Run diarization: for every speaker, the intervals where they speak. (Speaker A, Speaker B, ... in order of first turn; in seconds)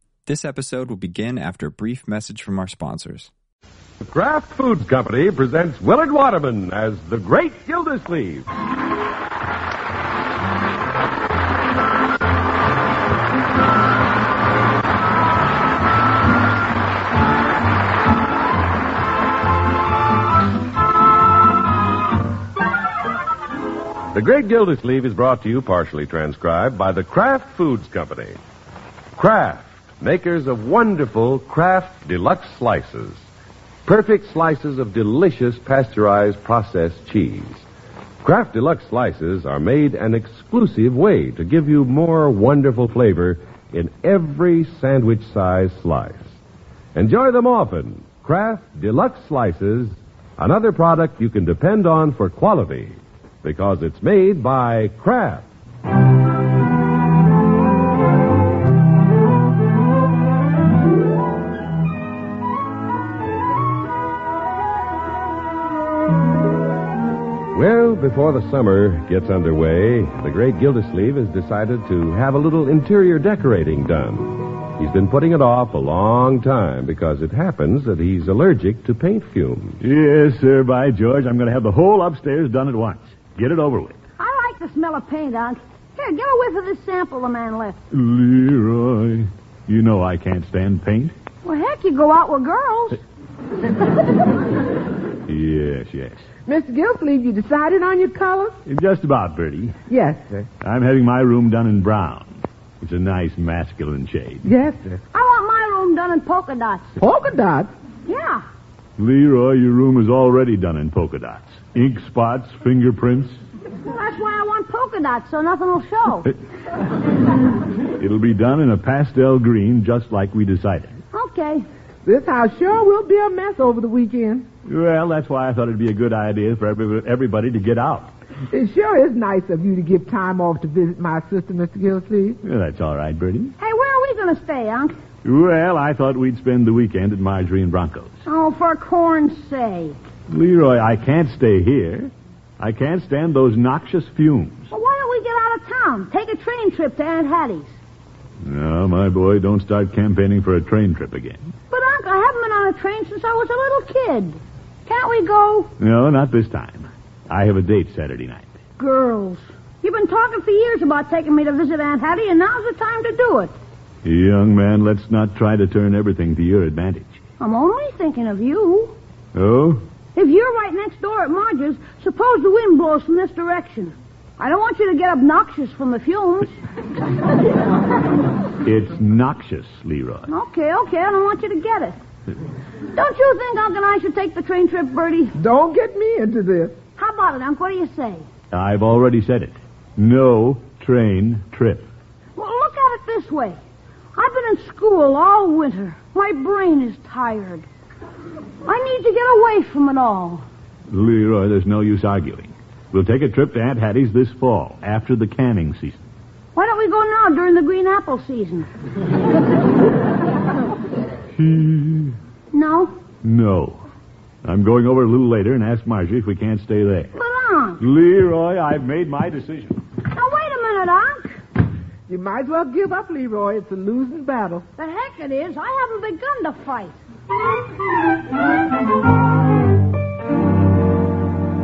Speaker A: 0.3-3.3
Speaker B: 4.0-8.5, 24.1-28.4, 29.2-33.2, 33.9-37.6, 38.2-46.3, 47.0-55.5, 67.5-79.8
Speaker C: 79.8-84.0, 87.9-91.1, 95.3-96.3, 98.7-99.8, 100.6-104.5, 109.0-113.4, 118.0-121.0, 124.7-128.1, 132.4-133.5, 135.2-138.2, 140.3-144.7, 148.4-151.4, 155.8-158.5, 164.0-167.2, 169.3-169.8, 178.6-180.3, 188.5-191.9, 200.9-206.1, 211.4-212.2, 213.2-213.8, 214.4-217.1, 217.8-219.8
Speaker D: 84.2-87.8, 91.4-93.0, 105.1-107.0, 108.1-108.5, 113.9-116.3, 121.1-121.7, 133.6-135.0, 138.3-140.0, 144.7-147.8, 151.7-155.7, 158.8-163.5, 167.4-168.9, 170.2-176.5, 180.3-182.0, 182.9-185.3, 187.0-188.3, 192.4-193.6, 194.2-197.7, 198.7-200.4, 206.6-208.7, 212.5-212.9, 217.2-217.8, 220.1-221.4, 224.8-227.0
Speaker E: 96.5-98.5, 99.9-100.5, 104.5-105.0, 107.0-107.7, 122.0-124.5, 128.5-132.4, 185.4-186.8, 222.1-224.7